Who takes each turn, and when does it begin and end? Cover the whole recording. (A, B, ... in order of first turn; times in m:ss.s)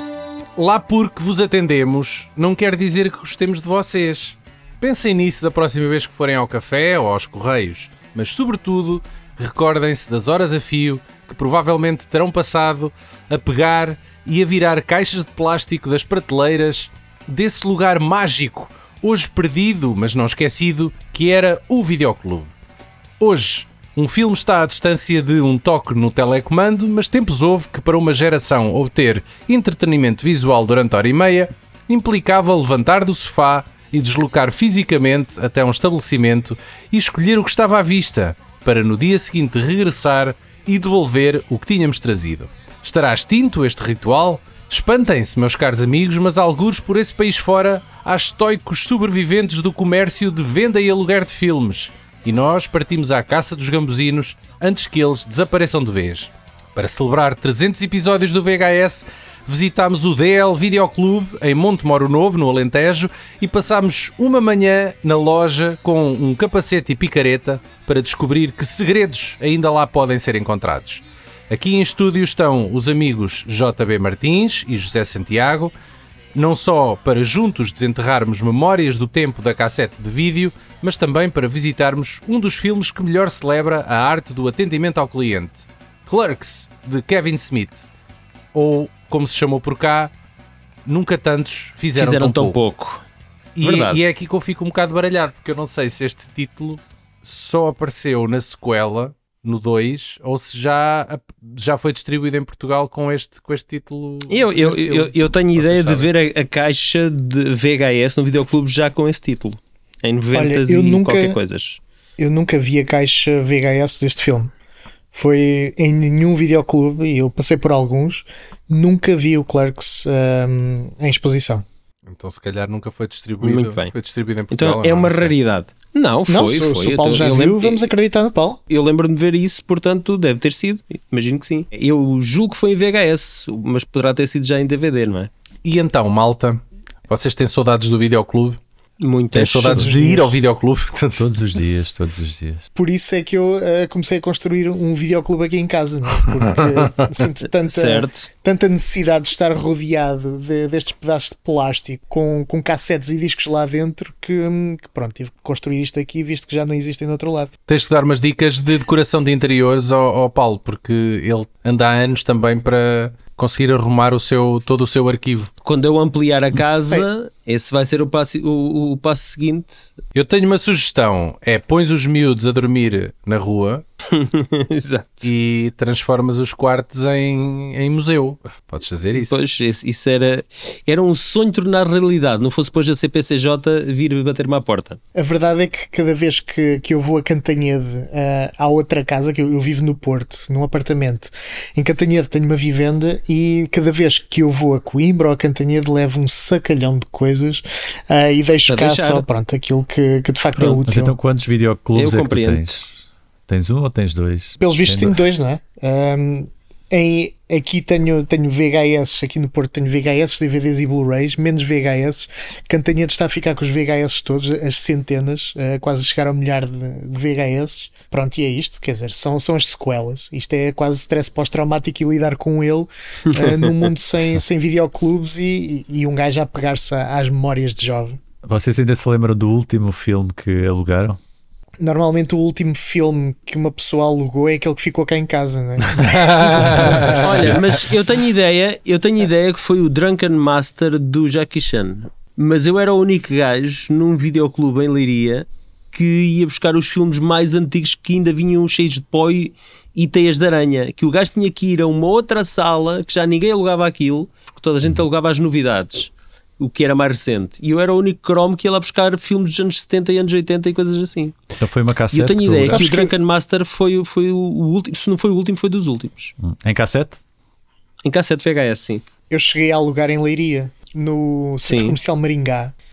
0:00.6-0:22.5 A
0:23.2-1:15.7 A
1:16.3-1:27.8 A
1:28.5-1:30.1 A
1:30.8-1:32.6 A
1:32.0-1:33.0 B
1:33.6-1:46.1 A
1:33.6-1:34.0 B
1:44.3-1:51.8 B
1:50.3-1:51.4 C
1:52.2-1:54.5 C
1:55.1-2:01.6 C
2:02.0-2:05.3 A
2:03.4-2:03.9 B
2:04.5-2:07.9 B
2:06.3-2:08.6 C
2:08.7-2:15.3 B
2:15.6-2:18.6 A
2:19.0-2:19.9 B
2:19.3-2:21.3 A
2:19.6-2:20.3 C
2:21.2-2:22.6 D
2:22.7-2:37.5 C
2:27.6-2:28.3 B
2:37.7-2:45.5 A
2:45.6-2:49.9 B
2:50.1-2:53.8 A
2:54.1-2:55.3 B
2:55.2-2:59.4 A
2:59.2-3:05.0 B
3:05.1-3:21.2 C
3:18.7-3:19.2 B
3:20.6-3:20.8 B
3:20.9-3:22.9 D
3:21.9-3:22.8 B
3:23.5-3:25.2 D
3:24.6-3:48.2 C
3:43.3-3:43.8 B
3:48.4-3:51.2 D
3:51.8-3:57.2 C
3:55.9-3:57.6 A
3:57.1-4:21.4 B
4:21.6-4:22.8 D
4:22.1-4:26.3 B
4:22.6-4:23.1 C
4:26.4-4:27.2 D
4:28.0-4:29.0 B
4:29.3-4:32.7 C
4:31.6-4:32.0 B